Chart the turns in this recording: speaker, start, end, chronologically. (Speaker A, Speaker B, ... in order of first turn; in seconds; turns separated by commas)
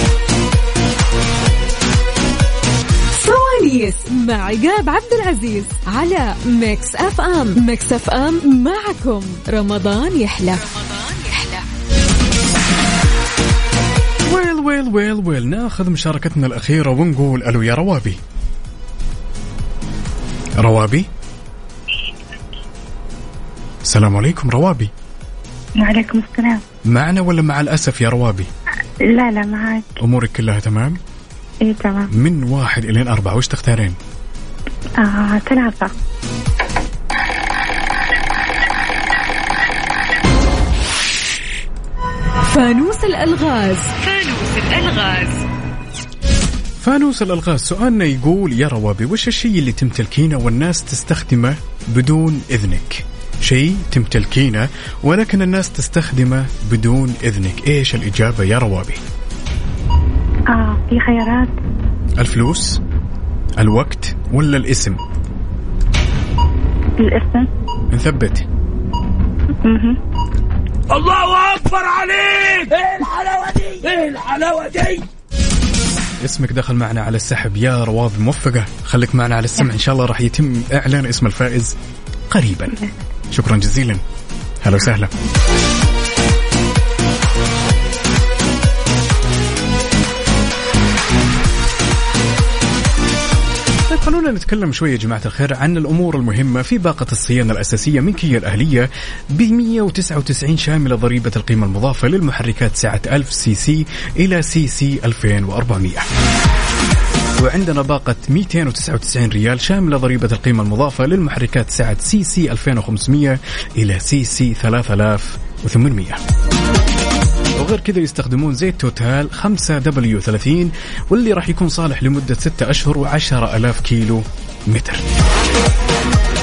Speaker A: 3.1-10.6, Speaker B: 10.7-11.6, Speaker C: 14.2-18.2, Speaker C: 20.6-21.1, Speaker C: 23.8-24.9, Speaker D: 25.8-26.6, Speaker C: 26.8-28.5, Speaker D: 29.1-29.9, Speaker C: 30.0-31.0, Speaker D: 31.6-32.1, Speaker C: 32.1-34.0, Speaker D: 35.0-35.9, Speaker A: 42.4-43.9, Speaker B: 44.0-45.4, Speaker C: 46.8-59.0, Speaker D: 60.5-61.5, Speaker C: 62.2-62.8, Speaker C: 63.6-65.0, Speaker D: 67.0-67.5, Speaker C: 67.9-68.4, Speaker D: 69.6-70.0, Speaker E: 70.9-75.0, Speaker C: 76.2-81.8, Speaker C: 82.3-84.0, Speaker C: 84.6-85.1, Speaker C: 93.9-106.1, Speaker C: 107.4-116.2, Speaker C: 117.6-125.0